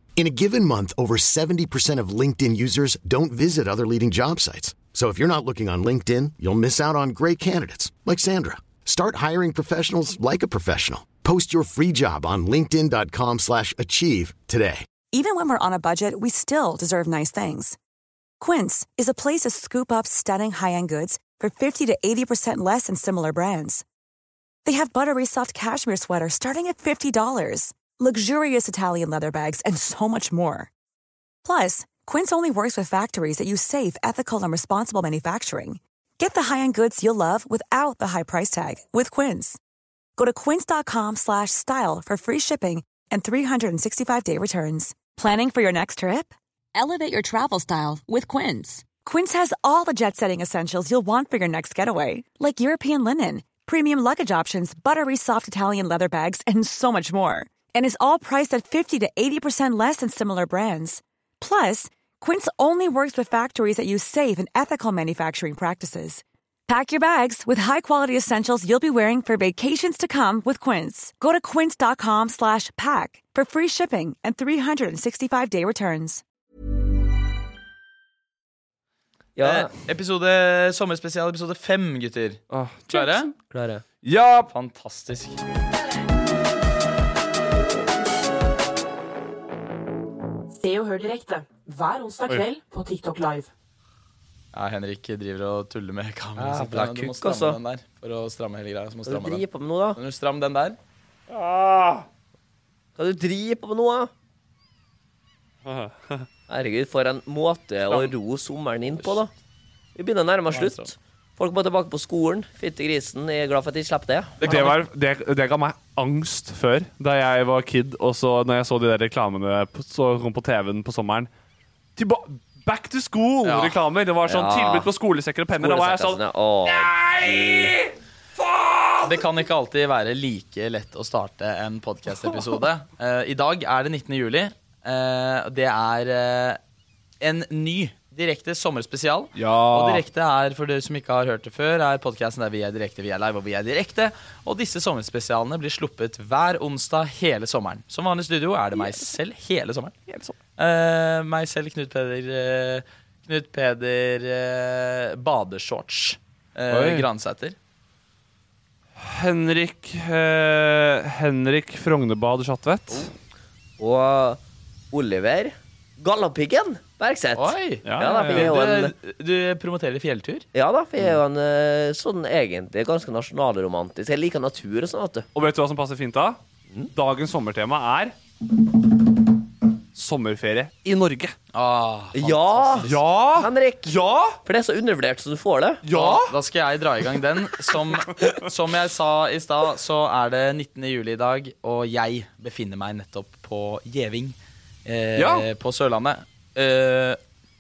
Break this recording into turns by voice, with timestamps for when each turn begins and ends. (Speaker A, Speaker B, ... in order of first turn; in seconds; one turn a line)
Speaker A: 0.2-14.9
Speaker B: 15.1-17.8
Speaker B: 18.4-23.8
Speaker B: 24.6-30.7
Speaker B: 31.4-39.6
Speaker B: 40.2-76.2
Speaker C: 79.4-79.7
Speaker D: 79.4-83.3
Speaker E: 82.5-83.3
Speaker C: 83.5-83.8
Speaker E: 84.0-84.5
Speaker D: 84.5-85.4
Speaker F: 90.5-93.5
Speaker D: 94.5-99.4
Speaker C: 96.4-97.6
Speaker C: 99.1-100.0
Speaker D: 100.0-100.8
Speaker E: 101.3-102.1
Speaker C: 103.0-104.1
Speaker E: 105.7-106.3
Speaker C: 106.5-109.3
Speaker D: 107.9-108.1
Speaker D: 108.9-109.2
Speaker C: 110.0-114.4
Speaker D: 110.5-110.9
Speaker D: 114.4-114.8
Speaker E: 114.4-121.3
Speaker E: 122.0-129.1
Speaker D: 123.4-123.8
Speaker C: 124.3-124.9
Speaker C: 125.5-127.8
Speaker D: 129.0-136.6
Speaker D: 137.2-157.6
Speaker E: 139.4-140.0
Speaker E: 156.7-157.1
Speaker E: 159.0-163.1
Speaker C: 163.8-164.4
Speaker C: 164.9-168.9
Speaker D: 167.4-170.5
Speaker E: 167.8-168.5
Speaker C: 170.5-175.3
Speaker E: 175.3-176.4
Speaker E: 176.9-178.2
Speaker E: 179.9-181.3
Speaker D: 181.5-183.0
Speaker C: 182.1-185.8
Speaker E: 182.8-184.4
Speaker E: 185.8-186.3
Speaker D: 185.9-197.2
Speaker E: 187.7-188.3
Speaker E: 195.2-195.5